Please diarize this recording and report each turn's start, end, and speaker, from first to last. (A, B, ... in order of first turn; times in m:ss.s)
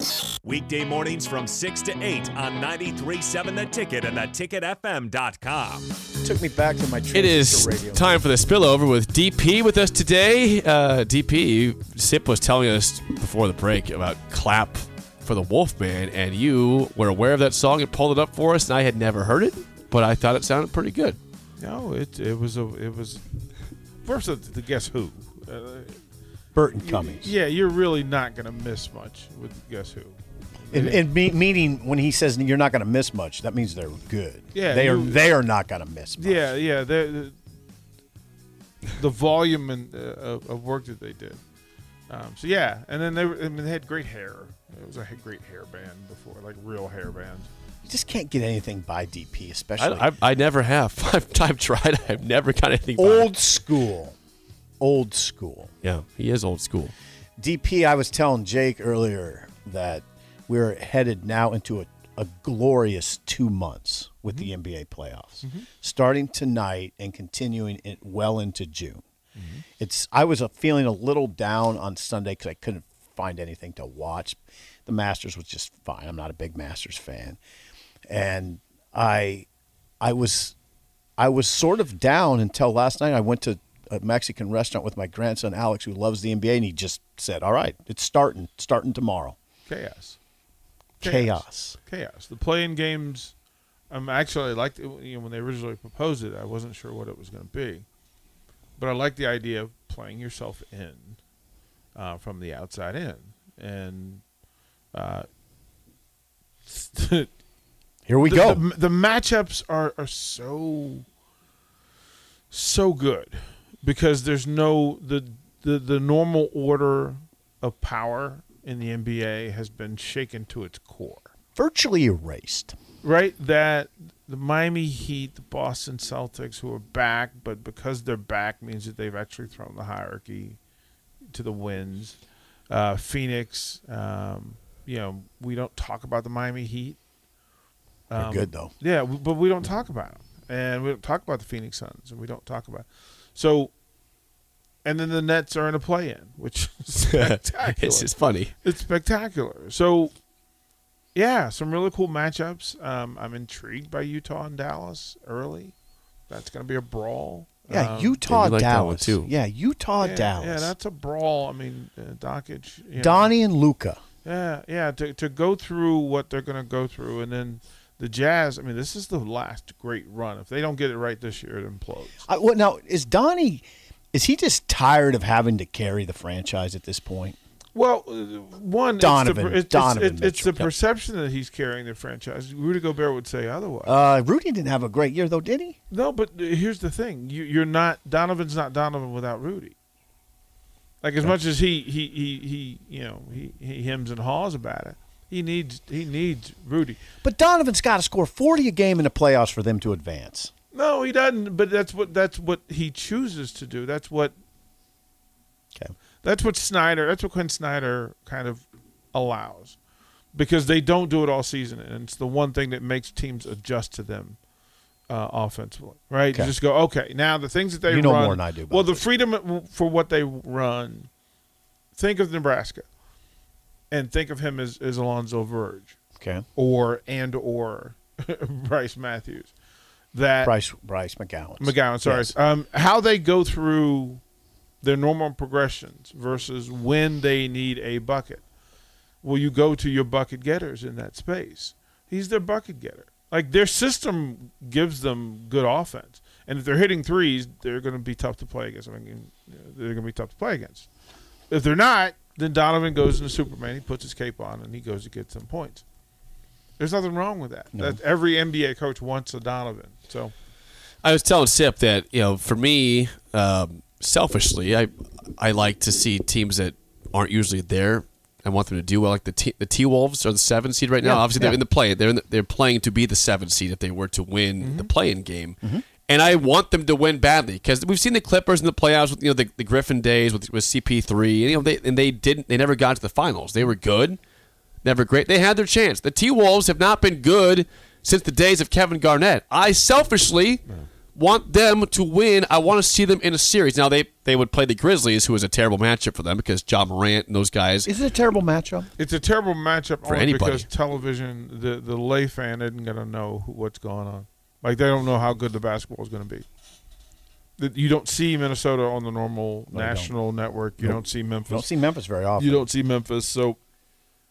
0:00.4-0:06.0 A
0:06.2-0:08.2 B
0:07.1-0:21.2 C
0:21.6-0:23.2 D
0:24.0-0:26.0 D
0:26.5-0:27.3 B
0:26.8-0:30.2 D
0:30.7-0:31.0 D
0:30.7-0:36.4 B
0:34.5-0:35.2 D
0:36.2-0:37.4 D
0:38.9-0:41.4 D
0:42.1-0:47.5 D
0:47.8-0:50.1 B
0:49.8-0:53.3 C
0:53.0-0:54.2 B
0:54.8-0:55.7 B
0:55.8-0:56.9 C
0:57.4-1:09.0 B
1:09.4-1:09.6 D
1:09.8-1:17.4 B
1:18.1-1:19.5 B
1:20.0-1:20.5 B
1:21.2-1:29.4 B
1:29.7-1:30.2 D
1:31.0-1:31.8 B
1:31.0-1:33.3 D
1:33.9-1:37.8 D
1:38.8-1:41.2 D
1:41.9-1:44.2 D
1:44.9-1:45.3 D
1:46.7-1:47.3 D
1:48.0-1:48.6 B
1:48.2-1:51.0 D
1:52.5-2:01.3 D
2:01.6-2:02.8 B
2:03.0-2:10.6 D
2:11.3-2:12.2 D
2:12.7-2:17.0 D
2:18.1-2:23.7 D
2:18.2-2:18.7 B
2:24.8-2:28.1 D
2:27.1-2:28.5 C
2:28.6-2:30.1 D
2:31.1-2:35.7 D
2:36.3-2:38.2 D
2:37.7-2:40.7 B
2:38.3-2:39.3 C
2:40.0-2:43.3 D
2:43.0-2:44.0 B
2:44.2-2:52.2 D
2:52.2-2:57.4 B
2:57.7-3:04.0 D
2:59.0-3:00.7 B
3:03.8-3:05.8 B
3:05.9-3:09.7 D
3:11.0-3:17.0 D
3:17.2-3:20.5 B
3:20.7-3:24.3 D
3:26.2-3:29.8 D
3:30.3-3:34.4 D
3:35.1-3:41.1 D
3:37.9-3:39.0 B
3:41.9-3:42.8 D
3:43.9-3:46.0 D
3:46.2-3:46.4 B
3:46.6-3:49.5 D
3:50.1-3:50.5 D
3:50.4-3:52.3 B
3:51.6-3:54.2 D
3:54.8-3:58.4 D
3:59.2-4:10.9 D
4:11.5-4:15.8 D
4:16.8-4:20.3 D
4:17.7-4:18.0 B
4:21.0-4:44.2 C
4:31.0-4:31.5 D
4:31.1-4:31.6 B
4:34.6-4:34.9 D
4:44.8-4:50.6 C
4:51.1-4:57.9 C
4:57.8-4:58.9 B
4:59.0-5:06.4 D
5:00.0-5:00.6 C
5:07.6-5:11.6 D
5:09.7-5:10.1 B
5:10.8-5:12.6 B
5:12.4-5:13.6 D